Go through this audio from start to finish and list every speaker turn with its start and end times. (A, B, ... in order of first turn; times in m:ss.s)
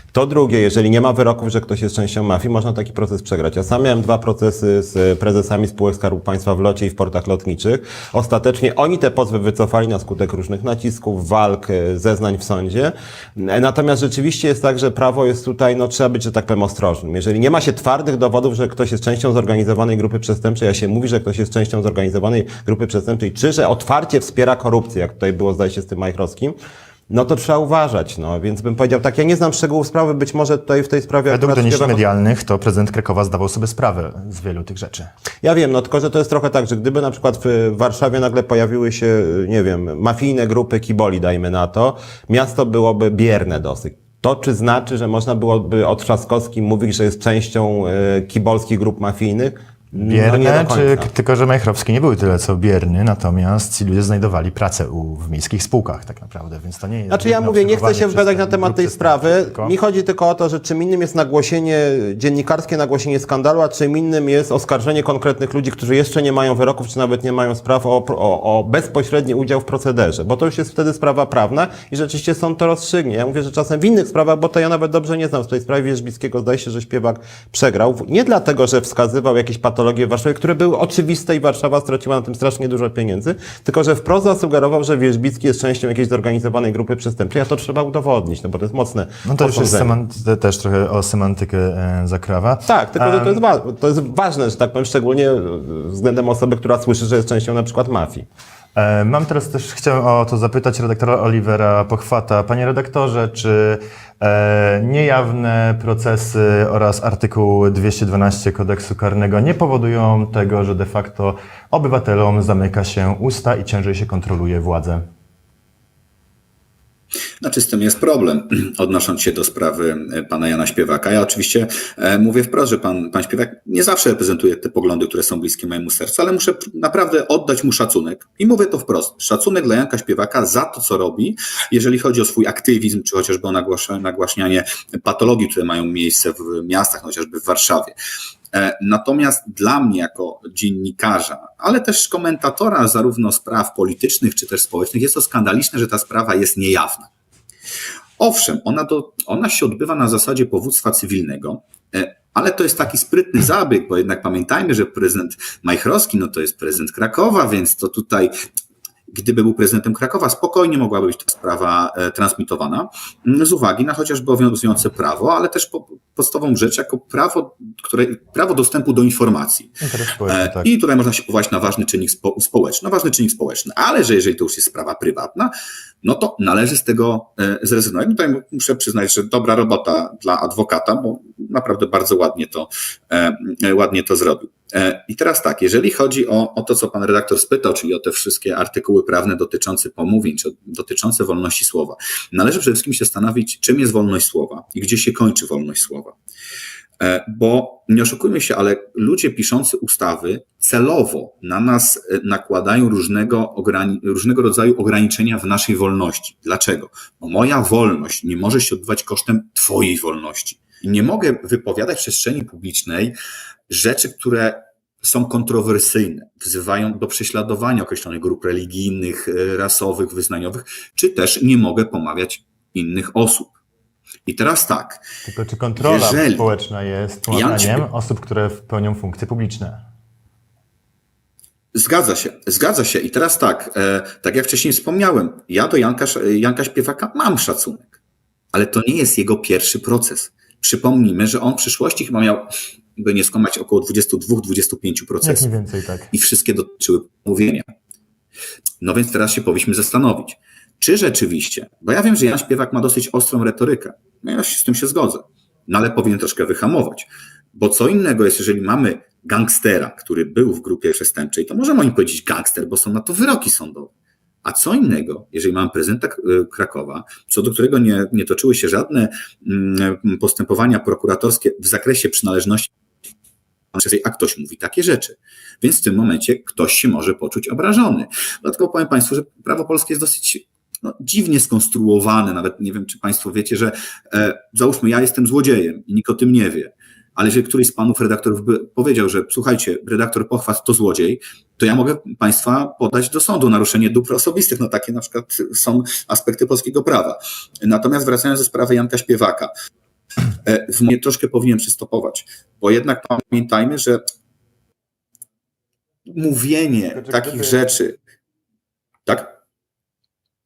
0:00.1-0:26.6 A
0:27.1-0:32.0 A
0:31.3-0:35.1 B
0:35.4-0:51.1 A
0:49.9-0:59.8 B
0:57.1-1:30.0 A
1:29.2-1:33.4 B
1:32.6-1:38.3 A
1:38.8-1:55.0 B
1:57.4-2:18.0 C
2:18.5-2:27.1 C
2:28.2-2:38.3 C
2:39.1-2:55.5 C
2:49.8-2:50.7 B
2:56.0-3:16.2 C
3:17.0-3:33.2 C
3:33.7-3:43.5 C
3:44.3-3:45.0 C
3:45.2-3:49.8 B
3:45.8-3:46.5 C
3:47.3-3:47.9 C
3:51.8-3:57.9 C
3:58.5-4:05.5 C
4:05.2-4:06.1 B
4:06.1-4:07.7 C
4:08.8-4:23.9 C
4:24.4-4:32.7 C
4:33.7-4:59.5 C
5:00.4-5:04.0 C
5:06.1-5:08.0 C
5:06.9-5:07.7 B
5:09.1-5:09.3 C